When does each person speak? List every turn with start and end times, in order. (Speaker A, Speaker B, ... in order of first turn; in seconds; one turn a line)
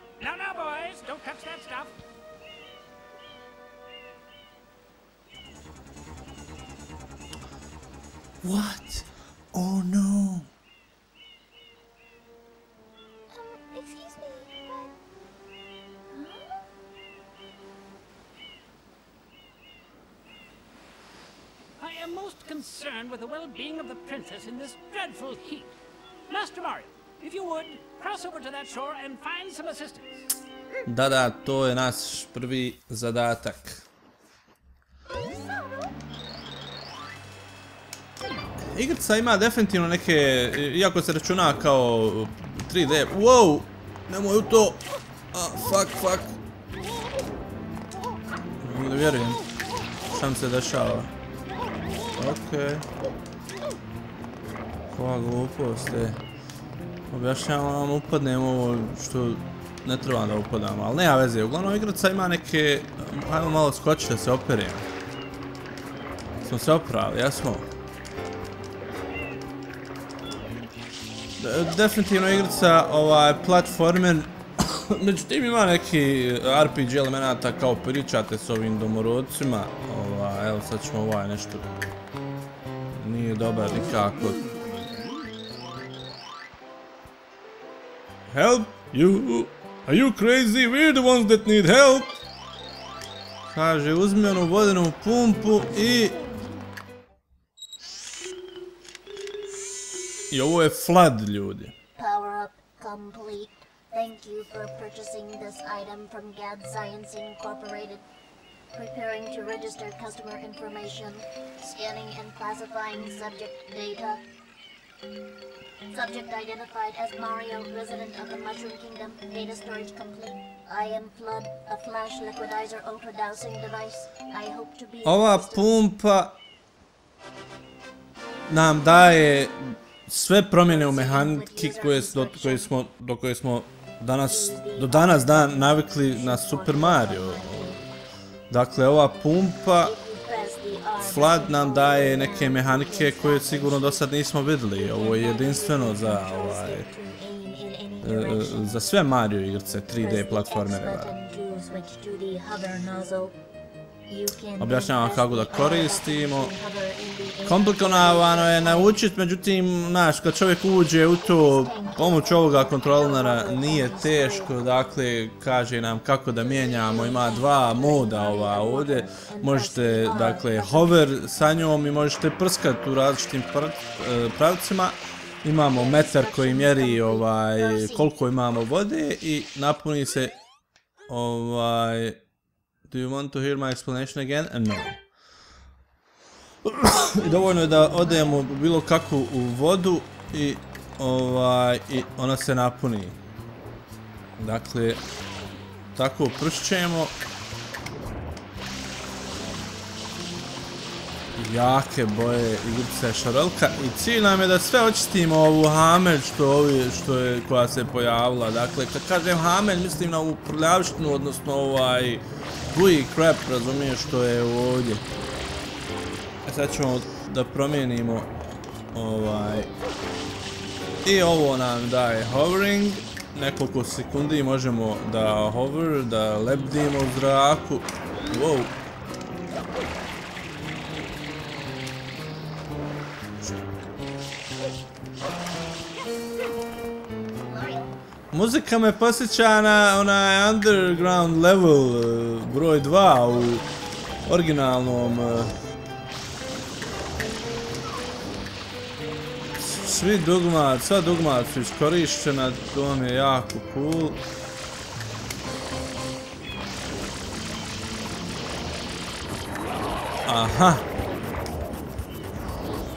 Speaker A: 0.2-2.0
Speaker B: 8.4-10.5
Speaker C: 13.3-14.9
Speaker C: 16.1-16.5
Speaker A: 21.8-25.7
Speaker A: 26.3-30.3
Speaker B: 30.9-33.8
Speaker B: 38.7-46.4
Speaker B: 48.6-49.4
Speaker B: 50.1-51.1
Speaker B: 52.2-52.9
Speaker B: 54.9-56.2
Speaker B: 57.1-64.9
Speaker B: 66.4-67.7
Speaker B: 71.4-81.7
Speaker B: 82.9-84.6
Speaker B: 88.3-92.2
Speaker B: 93.5-96.2
Speaker B: 100.3-101.8
Speaker C: 102.0-108.0
Speaker C: 108.7-114.2
Speaker C: 115.9-125.7
Speaker B: 125.0-126.4
Speaker B: 128.5-137.7
Speaker C: 130.6-132.7
Speaker C: 134.3-137.8
Speaker B: 138.5-139.9
Speaker C: 139.8-144.1
Speaker B: 141.0-146.9
Speaker C: 144.7-148.7
Speaker B: 148.0-151.1
Speaker C: 150.0-153.4
Speaker C: 154.1-159.0
Speaker B: 154.6-156.5
Speaker B: 157.5-180.4
Speaker C: 161.1-164.5
Speaker C: 166.4-171.0
Speaker C: 175.7-178.1
Speaker B: 181.1-182.2
Speaker B: 182.9-185.0
Speaker B: 186.6-193.2
Speaker C: 187.1-188.3
Speaker B: 194.4-195.0
Speaker B: 195.9-197.2
Speaker B: 201.4-215.0
Speaker B: 216.4-218.3
Speaker B: 218.9-219.7
Speaker B: 221.0-228.8
Speaker B: 233.4-233.8
Speaker C: 237.4-237.9
Speaker B: 238.3-243.7
Speaker B: 244.3-245.5
Speaker B: 249.6-254.2
Speaker B: 260.2-260.9